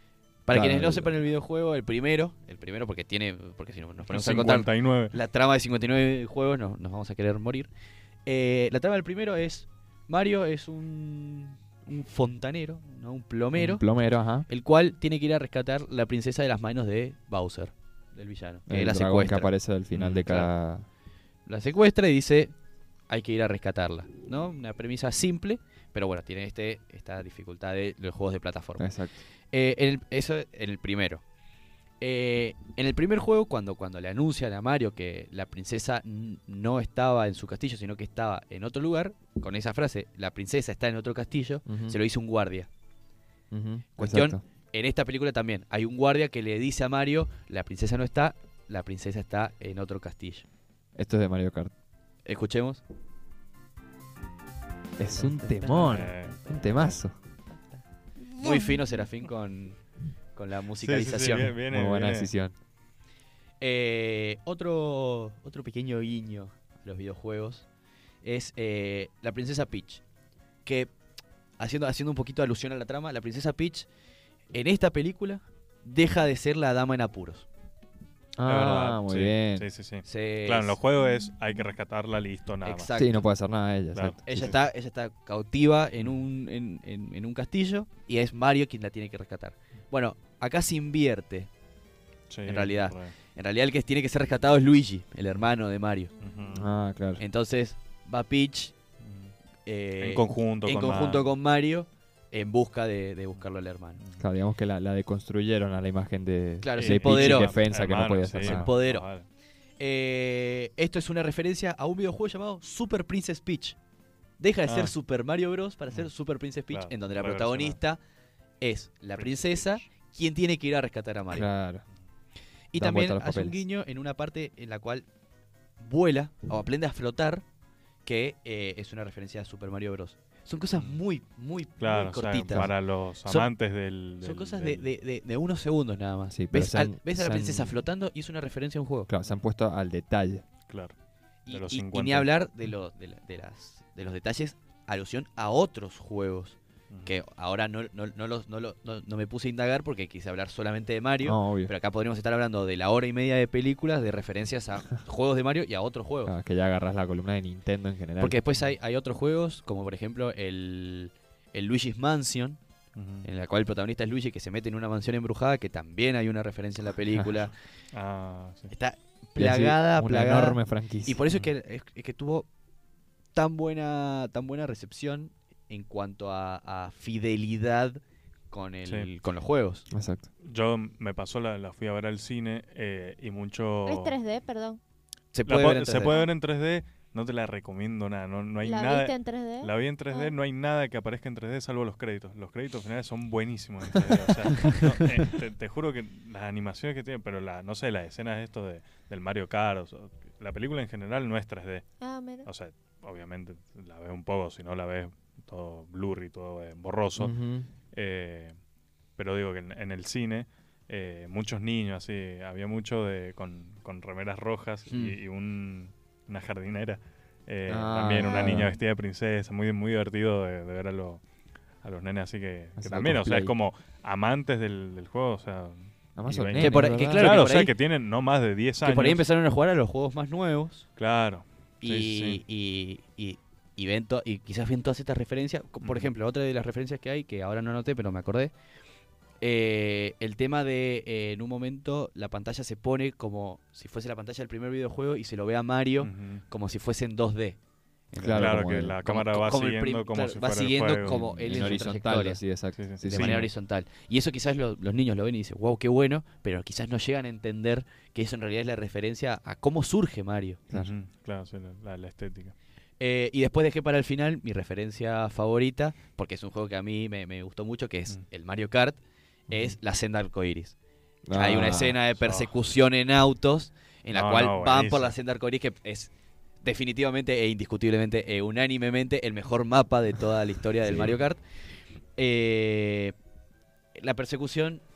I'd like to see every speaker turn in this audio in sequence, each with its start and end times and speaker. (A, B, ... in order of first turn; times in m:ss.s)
0:00.5-0:07.7 A
0:00.5-0:01.2 B
0:04.1-0:05.2 C
0:08.3-0:13.8 A
0:13.6-0:14.5 B
0:14.5-0:20.5 A
0:18.7-0:20.9 B
0:21.5-0:22.5 A
0:23.1-0:28.9 A
0:28.8-0:29.2 B
0:29.5-0:31.2 A
0:32.0-0:42.7 A
0:41.7-0:42.0 B
0:43.5-0:44.4 B
0:44.0-0:50.5 A
0:51.0-0:51.7 B
0:52.2-0:52.8 A
0:55.0-0:57.2 B
0:55.1-0:56.9 A
0:55.8-0:56.4 C
0:58.3-0:58.8 D
0:58.4-0:59.8 A
1:00.4-1:01.6 A
1:00.8-1:02.3 C
1:01.7-1:02.6 B
1:03.6-1:07.7 A
1:08.2-1:10.0 A
1:10.6-1:10.9 A
1:11.6-1:13.9 A
1:14.5-1:17.5 A
1:18.4-1:19.7 B
1:18.4-1:22.9 C
1:20.0-1:20.8 A
1:22.6-1:23.3 A
1:22.9-1:24.5 B
1:23.9-1:24.6 C
1:24.3-1:31.5 A
1:32.3-1:33.1 C
1:32.5-1:36.1 A
1:36.2-1:36.7 C
1:36.5-1:37.2 B
1:37.2-1:38.7 A
1:39.0-1:39.3 C
1:39.7-1:44.0 A
1:40.0-1:41.3 C
1:44.0-1:44.2 C
1:44.2-1:48.7 B
1:46.6-1:47.6 A
1:46.8-1:49.3 C
1:48.4-1:49.0 A
1:49.8-1:53.8 A
1:54.4-1:58.0 A
1:54.7-1:54.9 C
1:56.7-1:57.8 C
1:58.6-2:01.5 A
1:59.1-1:59.9 C
2:01.3-2:01.8 B
2:02.7-2:05.1 A
2:02.8-2:03.6 B
2:05.8-2:07.4 A
2:08.0-2:12.7 A
2:10.7-2:11.0 C
2:11.8-2:14.9 C
2:14.2-2:19.1 A
2:16.3-2:17.8 B
2:19.1-2:20.4 B
2:20.7-2:20.9 C
2:21.5-2:36.3 A
2:21.5-2:22.3 C
2:31.2-2:31.7 B
2:36.2-2:38.4 B
2:38.2-2:42.6 A
2:43.0-2:43.3 C
2:43.2-2:47.5 A
2:47.1-2:47.5 B
2:47.9-2:48.7 C
2:48.7-2:52.5 A
2:49.4-2:51.2 B
2:53.4-2:58.0 A
2:58.5-2:59.9 A
2:58.8-2:59.1 C
2:59.9-3:00.3 B
3:00.4-3:04.2 C
3:03.8-3:04.8 D
3:05.3-3:06.2 A
3:05.4-3:21.8 C
3:08.6-3:10.4 D
3:14.1-3:15.0 B
3:22.0-3:22.5 D
3:22.5-3:27.4 C
3:27.2-3:27.7 B
3:27.9-3:28.6 C
3:29.2-3:41.2 C
3:34.9-3:35.2 A
3:37.7-3:38.7 B
3:38.3-3:38.6 D
3:41.8-3:49.2 C
3:42.8-3:43.5 B
3:46.2-3:47.4 B
3:46.6-3:47.7 A
3:48.8-3:50.9 A
3:51.0-3:52.4 C
3:51.8-3:58.5 A
3:55.8-3:56.1 C
3:59.4-4:07.6 A
4:06.0-4:06.4 C
4:08.1-4:12.4 A
4:08.2-4:09.0 B
4:08.3-4:11.9 C
4:11.0-4:13.5 B
4:12.8-4:13.5 C
4:13.1-4:20.6 A
4:20.7-4:22.6 C
4:23.0-4:29.0 A
4:29.5-4:29.8 B
4:29.5-4:30.8 A
4:31.3-4:32.0 B
4:31.3-4:36.1 A
4:32.2-4:32.6 C
4:34.1-4:35.1 C
4:36.6-4:41.4 A
4:40.8-4:41.2 B
4:42.2-4:43.1 A
4:44.0-4:44.8 A